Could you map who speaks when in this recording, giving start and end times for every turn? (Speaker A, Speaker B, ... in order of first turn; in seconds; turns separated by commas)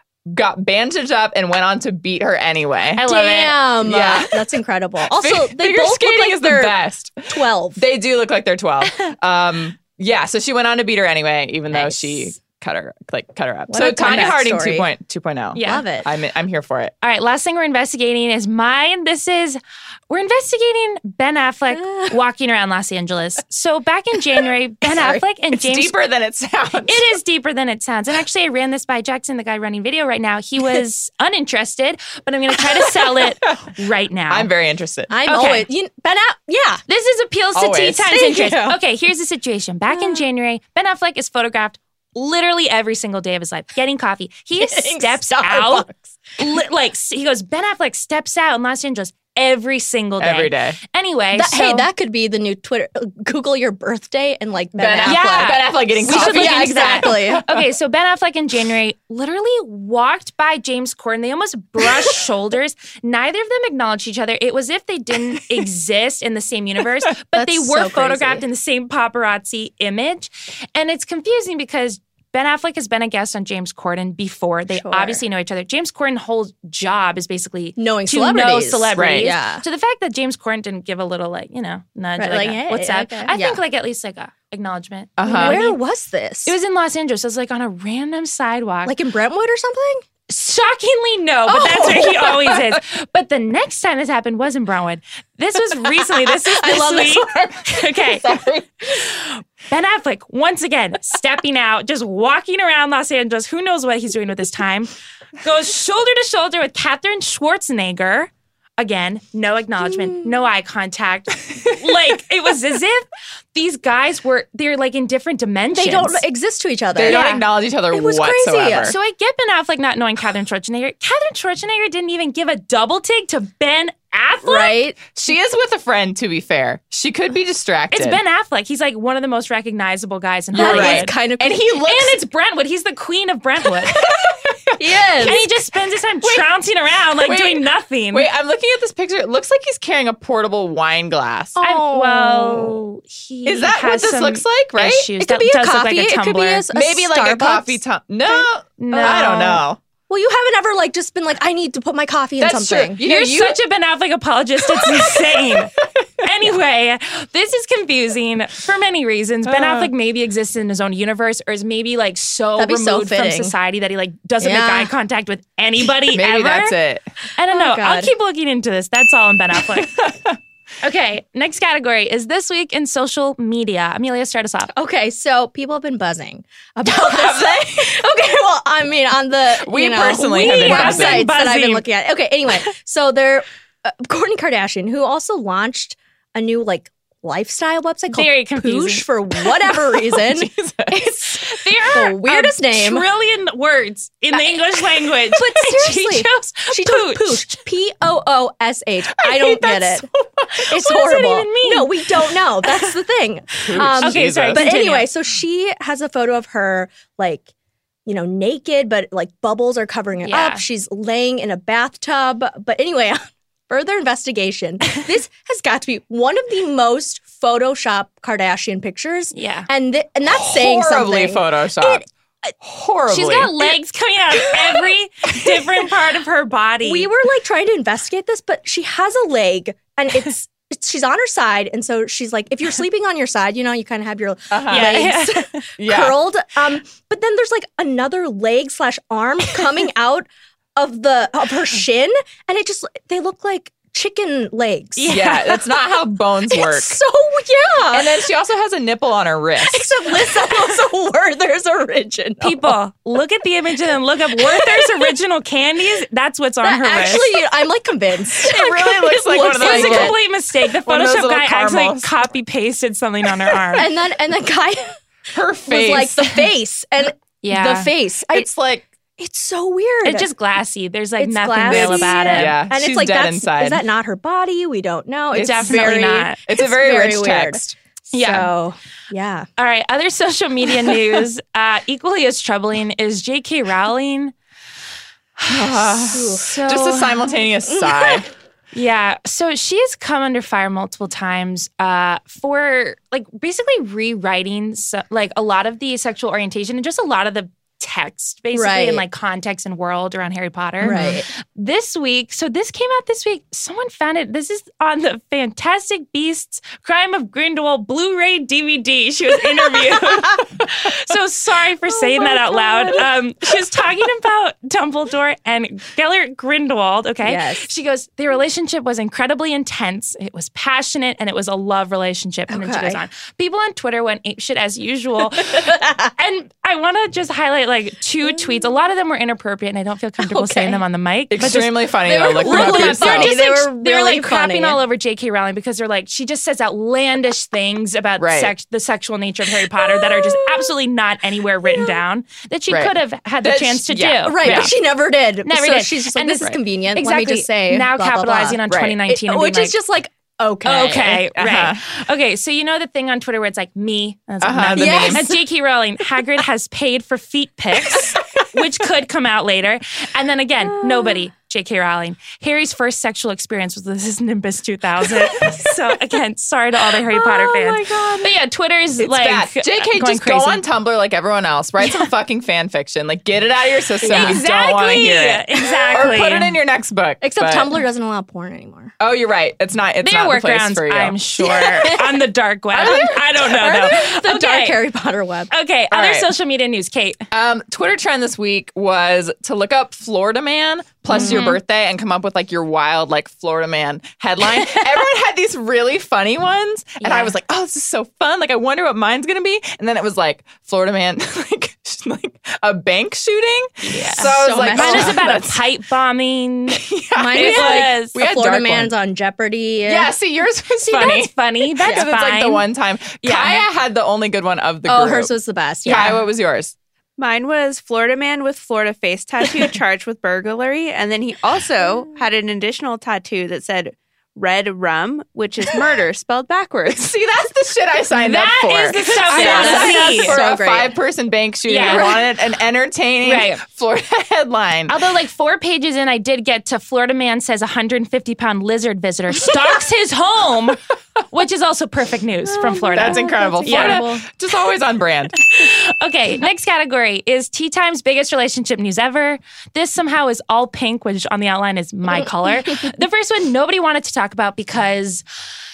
Speaker A: 0.3-3.0, Speaker B: 3.0-3.6, Speaker C: 3.0-6.8, Speaker A: 3.8-4.4, Speaker A: 5.1-16.9, Speaker C: 7.3-7.8, Speaker B: 11.7-12.3, Speaker C: 13.7-14.9, Speaker B: 15.6-15.8, Speaker C: 15.6-16.1, Speaker B: 17.0-25.9, Speaker C: 21.8-22.1, Speaker A: 24.9-27.0, Speaker B: 26.9-34.5, Speaker A: 33.2-33.7, Speaker A: 34.3-35.1, Speaker C: 35.1-36.8, Speaker B: 35.3-35.7, Speaker B: 36.9-51.9, Speaker A: 37.5-38.2, Speaker C: 38.1-38.8, Speaker C: 39.9-40.2, Speaker C: 44.6-46.1, Speaker A: 50.2-50.8, Speaker C: 51.3-57.5, Speaker A: 54.8-57.6, Speaker B: 55.0-85.8, Speaker C: 67.3-68.4, Speaker C: 74.7-75.2, Speaker C: 77.8-79.6, Speaker A: 79.0-79.3, Speaker C: 82.2-83.6, Speaker A: 85.2-85.6, Speaker C: 85.3-86.5, Speaker B: 86.5-89.0, Speaker C: 88.8-90.0, Speaker B: 90.3-116.2, Speaker C: 91.5-92.5, Speaker C: 96.6-97.2, Speaker A: 96.7-98.7, Speaker C: 109.8-110.3, Speaker C: 115.7-117.3, Speaker A: 117.0-119.0, Speaker B: 117.1-117.4, Speaker C: 117.9-118.9, Speaker B: 118.8-124.8, Speaker C: 124.4-125.0, Speaker A: 125.1-128.2, Speaker B: 127.9-131.2, Speaker C: 130.5-131.8, Speaker A: 130.5-132.2, Speaker B: 131.9-134.1, Speaker A: 133.9-135.5, Speaker C: 134.8-135.4, Speaker B: 135.2-138.3, Speaker A: 136.2-136.5, Speaker A: 137.2-141.6, Speaker C: 141.6-142.8, Speaker B: 141.6-146.7, Speaker A: 143.5-145.1, Speaker C: 145.2-149.6, Speaker A: 146.7-149.8, Speaker B: 148.8-149.6, Speaker C: 150.1-153.0, Speaker A: 152.4-153.6, Speaker B: 153.0-166.8, Speaker A: 154.8-155.8, Speaker A: 159.5-159.9, Speaker C: 162.6-163.5, Speaker C: 164.4-164.9, Speaker A: 166.1-167.1, Speaker B: 167.4-169.9, Speaker C: 167.5-168.1, Speaker A: 169.8-170.4, Speaker B: 170.8-174.7, Speaker C: 174.7-193.1, Speaker A: 176.8-178.0, Speaker A: 179.5-181.3, Speaker B: 180.1-181.8, Speaker B: 188.1-189.1, Speaker A: 189.8-191.3, Speaker B: 191.5-197.6, Speaker C: 195.2-207.5, Speaker A: 199.2-200.7, Speaker B: 200.7-202.0, Speaker A: 203.6-204.7, Speaker B: 203.8-205.1, Speaker C: 208.1-222.0, Speaker B: 210.2-210.6, Speaker B: 219.3-219.7, Speaker A: 220.3-222.1, Speaker A: 222.6-223.7, Speaker B: 223.1-227.1, Speaker C: 226.8-245.2, Speaker A: 234.5-235.1, Speaker B: 234.7-235.7, Speaker A: 235.8-236.2, Speaker B: 245.0-245.6, Speaker A: 245.1-247.0, Speaker C: 246.5-248.2, Speaker A: 247.9-249.9, Speaker C: 249.6-252.8, Speaker B: 252.4-257.3, Speaker C: 254.4-255.0, Speaker C: 256.6-260.2, Speaker A: 258.3-262.1, Speaker B: 259.5-263.9, Speaker C: 263.8-264.9, Speaker A: 265.3-266.4, Speaker C: 265.7-268.5, Speaker B: 267.4-267.9, Speaker A: 268.3-268.9, Speaker C: 269.2-270.3, Speaker B: 270.0-272.6, Speaker C: 271.2-279.5, Speaker A: 271.7-273.8, Speaker B: 275.3-276.4, Speaker A: 275.3-277.7, Speaker B: 278.1-278.5, Speaker B: 279.6-284.3, Speaker A: 285.5-288.3, Speaker C: 286.1-286.6, Speaker B: 286.3-287.3, Speaker C: 287.7-288.2, Speaker B: 288.7-344.7, Speaker C: 298.5-299.0, Speaker C: 300.8-301.3, Speaker A: 300.9-301.1, Speaker C: 311.9-313.1, Speaker C: 317.2-317.7, Speaker C: 322.5-323.0, Speaker C: 325.6-326.1, Speaker C: 330.2-330.8, Speaker A: 331.3-333.4, Speaker C: 332.1-334.8, Speaker A: 338.2-338.5, Speaker C: 339.7-340.7, Speaker C: 341.7-342.0, Speaker A: 342.7-344.7, Speaker C: 344.2-351.3, Speaker B: 345.4-349.8, Speaker A: 348.7-349.0, Speaker B: 350.6-370.6, Speaker A: 351.4-351.8, Speaker A: 354.4-355.3, Speaker C: 354.8-355.4, Speaker C: 360.8-361.2, Speaker A: 365.4-365.7, Speaker C: 367.3-368.2, Speaker A: 367.8-368.2, Speaker A: 369.0-377.7, Speaker C: 374.0-374.4, Speaker B: 374.0-376.6, Speaker C: 375.7-376.1, Speaker C: 377.2-378.9, Speaker A: 379.0-382.0, Speaker B: 380.0-384.8, Speaker C: 381.4-382.2, Speaker A: 382.7-383.9, Speaker C: 382.8-385.5, Speaker B: 385.5-387.3, Speaker A: 385.9-386.3, Speaker A: 387.3-405.6, Speaker B: 391.1-391.6, Speaker C: 391.1-391.4, Speaker B: 394.5-394.8, Speaker B: 397.0-397.3, Speaker B: 403.8-406.8, Speaker C: 404.0-405.4, Speaker A: 406.7-408.9, Speaker C: 407.1-410.1, Speaker B: 407.3-408.2, Speaker A: 409.9-415.3, Speaker B: 410.8-412.6, Speaker B: 413.2-413.6, Speaker C: 414.9-416.2, Speaker A: 415.8-416.7, Speaker B: 415.9-416.1, Speaker D: 417.2-427.1, Speaker A: 426.9-435.0, Speaker B: 428.1-430.4, Speaker C: 429.3-430.9, Speaker B: 431.7-432.2, Speaker C: 431.8-432.1, Speaker B: 433.2-433.6, Speaker B: 434.9-440.8, Speaker B: 441.3-444.1, Speaker C: 442.5-444.2, Speaker A: 442.9-445.4, Speaker B: 445.4-455.2